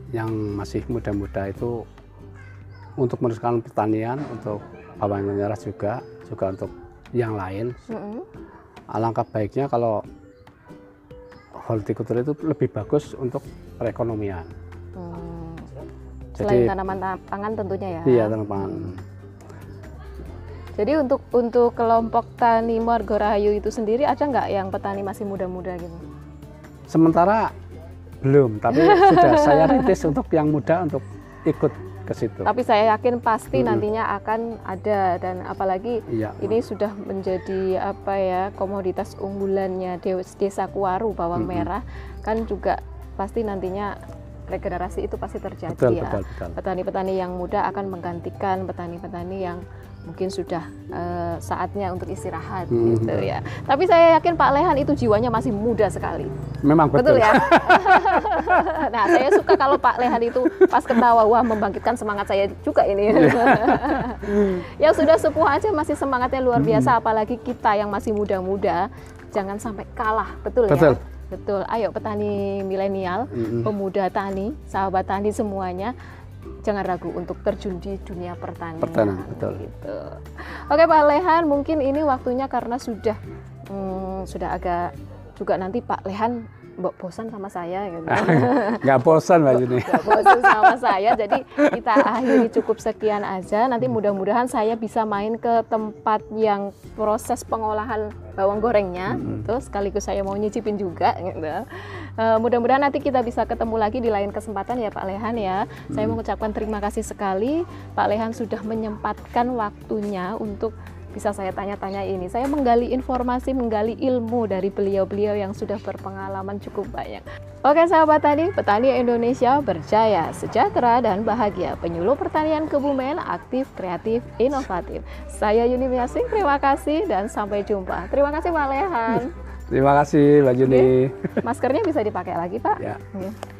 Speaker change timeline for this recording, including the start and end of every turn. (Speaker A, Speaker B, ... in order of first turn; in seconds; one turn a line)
Speaker A: 0.1-1.8
Speaker A: 3.0-7.9
Speaker B: 7.9-8.3
Speaker A: 8.9-10.0
Speaker A: 11.6-14.5
Speaker B: 14.9-15.7
Speaker A: 16.4-16.7
Speaker B: 16.4-18.9
Speaker A: 18.0-19.0
Speaker B: 20.8-26.0
Speaker A: 26.9-27.5
Speaker A: 28.2-32.5
Speaker B: 28.7-29.9
Speaker B: 32.4-43.9
Speaker A: 33.5-33.9
Speaker A: 36.1-36.6
Speaker A: 41.4-41.7
Speaker B: 44.5-56.3
Speaker A: 45.7-46.6
Speaker A: 52.7-53.3
Speaker A: 56.6-60.9
Speaker B: 56.9-75.9
Speaker A: 63.1-64.6
Speaker A: 66.5-66.9
Speaker A: 70.7-71.0
Speaker A: 73.3-73.7
Speaker B: 76.6-83.2
Speaker A: 78.8-79.6
Speaker B: 83.7-88.8
Speaker A: 88.1-91.0
Speaker B: 89.5-129.3
Speaker A: 91.6-92.5
Speaker A: 99.1-99.4
Speaker A: 129.7-131.4
Speaker B: 130.6-133.3